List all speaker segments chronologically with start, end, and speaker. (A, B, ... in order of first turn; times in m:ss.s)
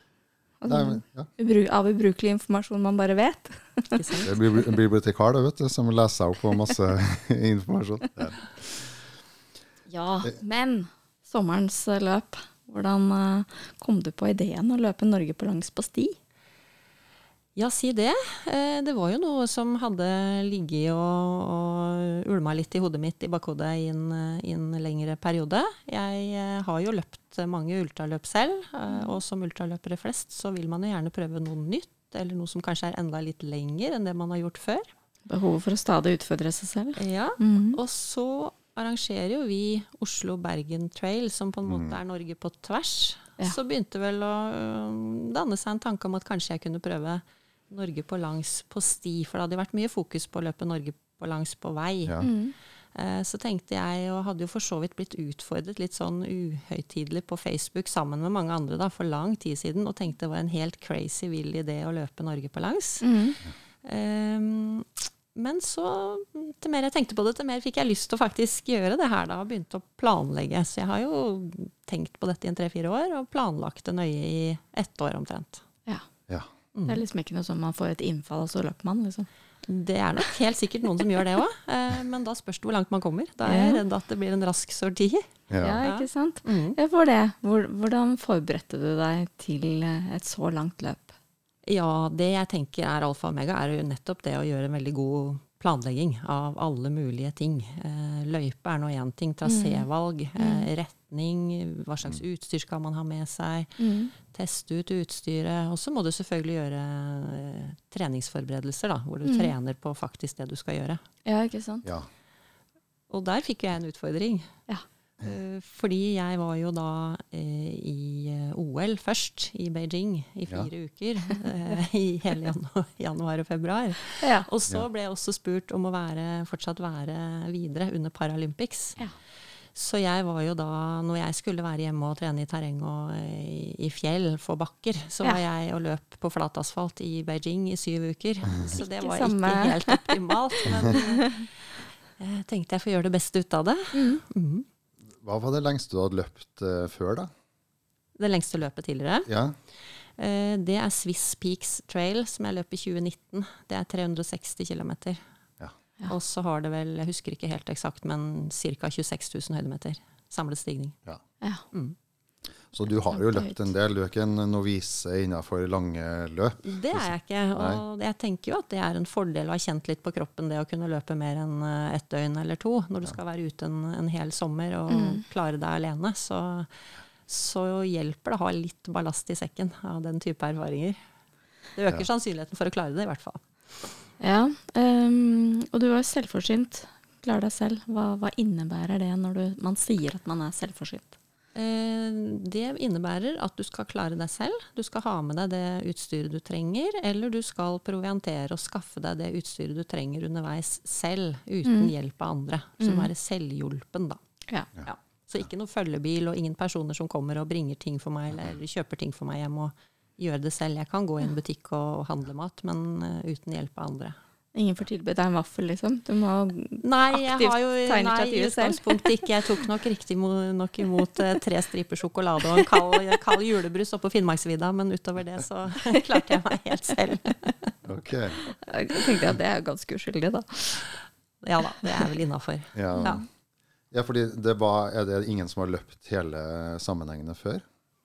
0:00.6-0:04.2 A
0:00.7-0:01.3 B
0:03.9-0:04.4 C
0:04.2-0:08.9 B
0:09.9-0:16.2 A
0:17.6-0:34.9 C
0:28.9-0:29.2 A
0:35.3-0:37.8 A
0:37.0-0:52.3 C
0:41.7-0:42.0 B
0:52.2-0:52.5 A
0:53.0-1:03.2 C
1:03.0-1:03.4 A
1:03.8-1:15.6 C
1:16.8-1:17.0 C
1:16.9-1:19.3 A
1:19.7-1:25.3 C
1:23.4-1:23.8 A
1:25.5-1:25.8 B
1:25.6-1:31.2 A
1:25.8-1:26.8 C
1:31.7-1:51.0 C
1:39.4-1:39.9 A
1:40.4-1:40.7 A
1:43.8-1:44.1 A
1:49.2-1:49.5 A
1:51.2-1:51.9 A
1:53.1-1:54.5 C
1:55.2-2:09.0 C
2:04.2-2:04.4 A
2:09.7-2:24.7 C
2:18.7-2:21.5 A
2:23.9-2:24.2 A
2:25.2-2:27.3 B
2:28.2-2:35.2 C
2:29.3-2:29.6 B
2:36.1-2:41.0 C
2:42.7-2:47.8 B
2:43.1-2:43.7 A
2:46.6-3:01.0 C
2:54.9-2:55.2 A
3:01.8-3:03.9 C
3:04.2-3:11.2 A
3:11.6-3:24.2 C
3:21.6-3:21.9 A
3:22.8-3:23.1 A
3:24.8-3:34.2 C
3:34.6-3:39.4 A
3:36.8-3:47.7 C
3:42.5-3:43.2 A
3:47.8-3:48.4 B
3:48.5-3:50.9 A
3:51.4-3:53.2 C
3:52.8-3:53.2 B
3:52.9-3:53.2 A
3:53.9-3:57.6 B